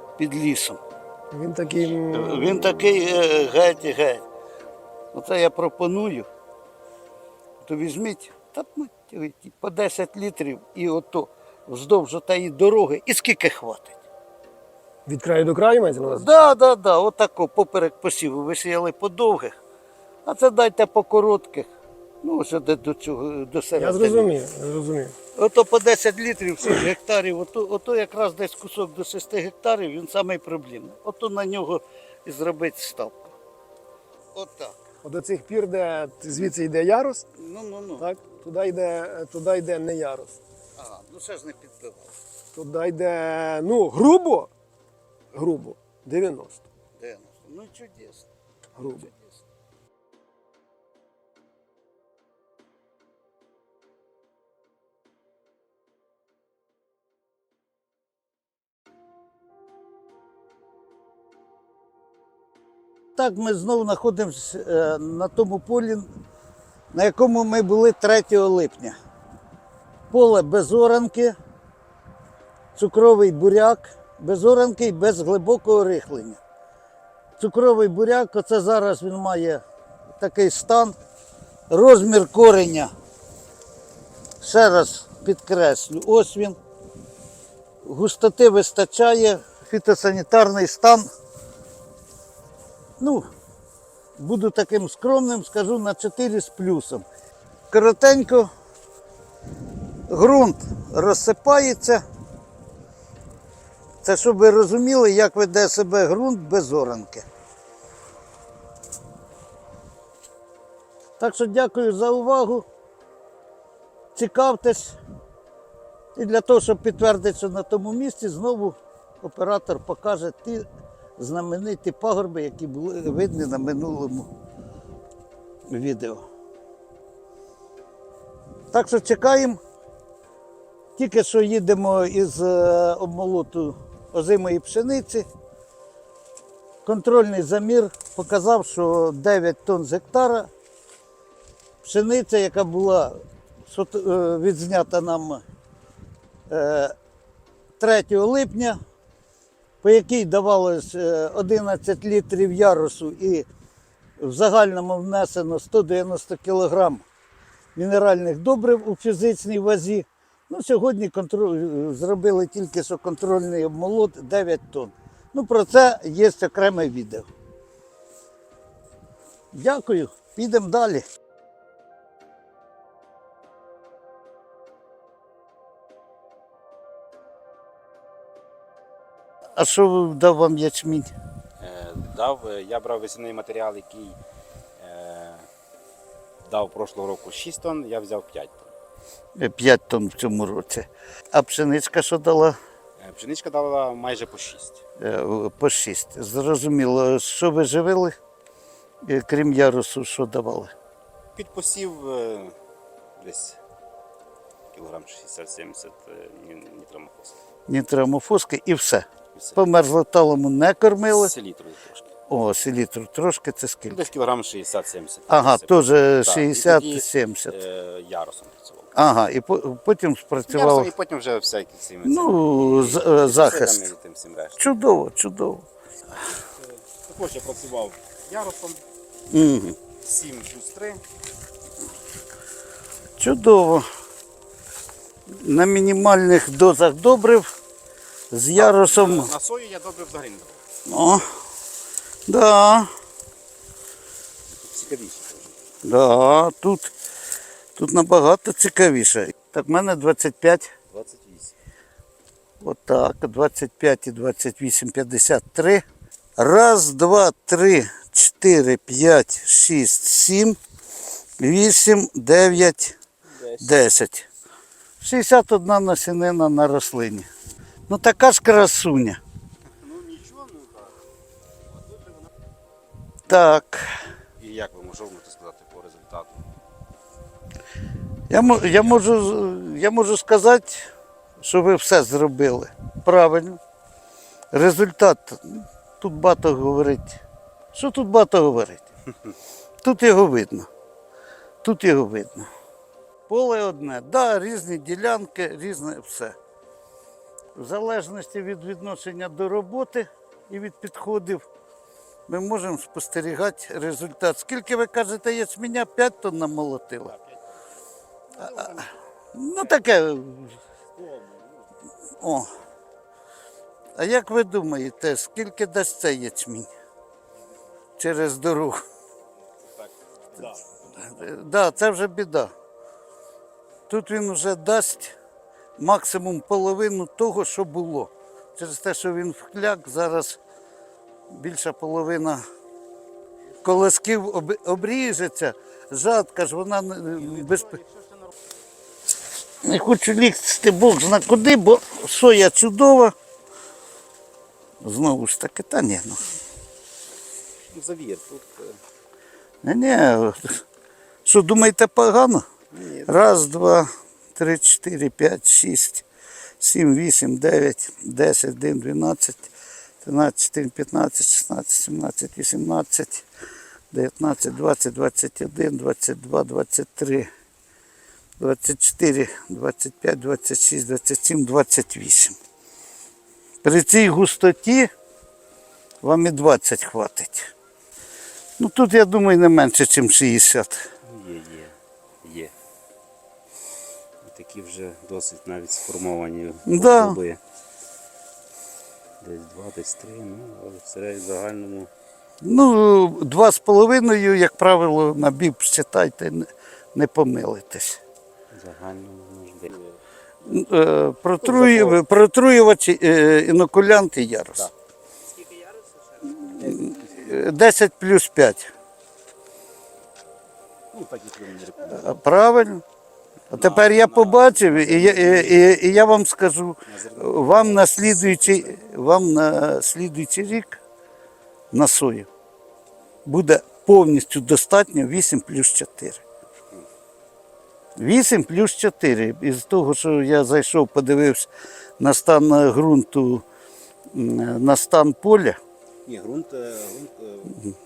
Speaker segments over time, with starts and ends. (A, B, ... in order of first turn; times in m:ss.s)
0:00.2-0:00.8 A
0:01.3-0:02.6 B
0:02.1-0:04.2 A
0:05.1-0:06.3 A
0:07.6-0:14.0 A
0:15.1-0:16.3 B
0:16.0-0:19.5 A
0:20.2-0:21.7 A
0:22.2-0:24.3 A
0:23.8-0:25.2 B
0:25.4-0:33.3 A
0:34.4-0:34.8 A
0:35.0-0:37.2 B
0:37.4-0:38.1 A
0:38.0-0:40.4 B
0:40.8-0:42.1 A
0:42.6-0:44.5 B
0:45.3-0:46.6 B
0:47.0-0:48.3 A
0:48.8-0:49.1 B
1:03.2-1:06.1 A
1:06.9-1:08.9 A
1:10.1-1:11.4 A
1:12.8-1:16.4 A
1:17.4-1:19.6 A
1:20.2-1:21.0 A
1:21.7-1:22.9 A
1:24.4-1:26.6 A
1:27.8-1:31.1 A
1:33.0-1:33.3 A
1:34.2-1:37.1 A
1:37.7-1:38.5 A
1:40.1-1:42.0 A
1:44.0-1:47.3 A
1:51.2-1:52.7 A
1:54.2-1:55.0 A
1:56.2-2:00.7 A
2:01.2-2:04.3 A
2:05.7-2:06.3 A
2:08.7-2:09.6 A
2:11.0-2:15.3 A
2:16.8-2:20.5 A
2:21.8-2:25.4 A
2:26.5-2:26.9 A
2:27.8-2:28.8 A
2:29.8-2:33.5 A
2:34.2-2:37.0 A
2:37.8-2:47.3 A
2:49.5-2:51.0 A
2:59.6-3:01.1 A
3:01.6-3:04.2 C
3:04.8-3:05.5 C
3:06.4-3:08.7 C
3:09.4-3:12.6 A
3:13.0-3:14.8 C
3:15.0-3:18.2 A
3:19.0-3:20.7 A
3:21.4-3:22.5 C
3:23.2-3:23.6 C
3:24.7-3:27.4 C
3:27.7-3:31.3 A
3:29.3-3:29.6 C
3:31.0-3:32.1 C
3:32.3-3:34.0 A
3:33.9-3:38.9 C
3:35.3-3:37.6 A
3:39.0-3:40.9 A
3:40.5-3:44.8 C
3:42.0-3:43.8 A
3:44.6-3:45.7 A
3:46.6-3:48.8 C
3:49.3-3:49.8 A
3:50.0-3:51.0 C
3:53.2-3:53.9 A
3:55.4-3:57.5 A
3:58.3-3:59.3 A
3:58.6-4:00.6 C
4:00.9-4:01.3 A
4:02.3-4:02.9 A
4:04.5-4:05.6 C
4:05.8-4:06.9 A
4:07.8-4:10.7 A
4:10.9-4:11.6 C
4:12.6-4:15.8 A
4:16.4-4:20.6 A
4:21.4-4:23.0 A
4:23.4-4:23.8 C
4:23.6-4:24.3 A
4:25.0-4:27.3 A
4:27.9-4:29.2 A
4:29.8-4:30.9 C
4:31.9-4:32.1 C
4:33.3-4:33.9 A
4:34.4-4:36.4 C
4:38.3-4:40.9 A
4:38.6-4:39.0 C
4:41.4-4:43.6 A
4:44.5-4:47.2 A
4:47.7-4:48.8 A
4:49.8-4:50.7 A
4:51.6-4:52.5 A
4:53.3-4:56.4 A
4:57.6-5:01.5 A
5:02.3-5:07.1 A
5:07.1-5:07.6 C
5:08.4-5:08.9 C
5:08.4-5:08.8 A
5:09.3-5:10.6 A
5:09.6-5:09.8 C
5:11.0-5:11.7 C
5:12.2-5:12.5 A
5:14.0-5:16.7 A
5:18.0-5:18.8 A
5:19.6-5:21.5 C
5:21.0-5:22.5 A
5:23.9-5:25.2 A
5:25.8-5:30.4 A
5:31.3-5:32.4 A
5:33.6-5:37.8 A
5:37.2-5:38.3 C
5:39.6-5:43.1 A
5:44.8-5:46.2 A
5:47.7-5:48.8 C
5:49.6-5:50.6 A
5:51.2-5:52.4 A
5:52.7-5:53.2 C
5:53.1-5:56.1 A
5:56.6-5:59.5 A
6:00.0-6:03.3 A
6:03.9-6:07.3 A
6:08.4-6:12.4 A
6:13.6-6:14.9 A
6:16.0-6:17.5 A
6:18.6-6:20.8 A
6:21.1-6:22.5 C
6:24.2-6:27.4 C
6:26.7-6:27.2 A
6:29.2-6:31.9 C
6:32.4-6:38.0 A
6:38.5-6:40.0 C
6:40.4-6:44.7 A
6:41.4-6:42.0 C
6:45.4-6:46.9 C
6:46.5-6:48.7 A
6:50.9-6:52.1 C
6:51.9-6:52.8 A
6:53.5-7:00.8 A
6:53.6-6:55.8 C
6:56.9-6:58.8 C
7:01.7-7:02.3 A
7:03.2-7:06.2 A
7:08.0-7:13.4 A
7:14.1-7:15.6 A
7:16.1-7:17.6 C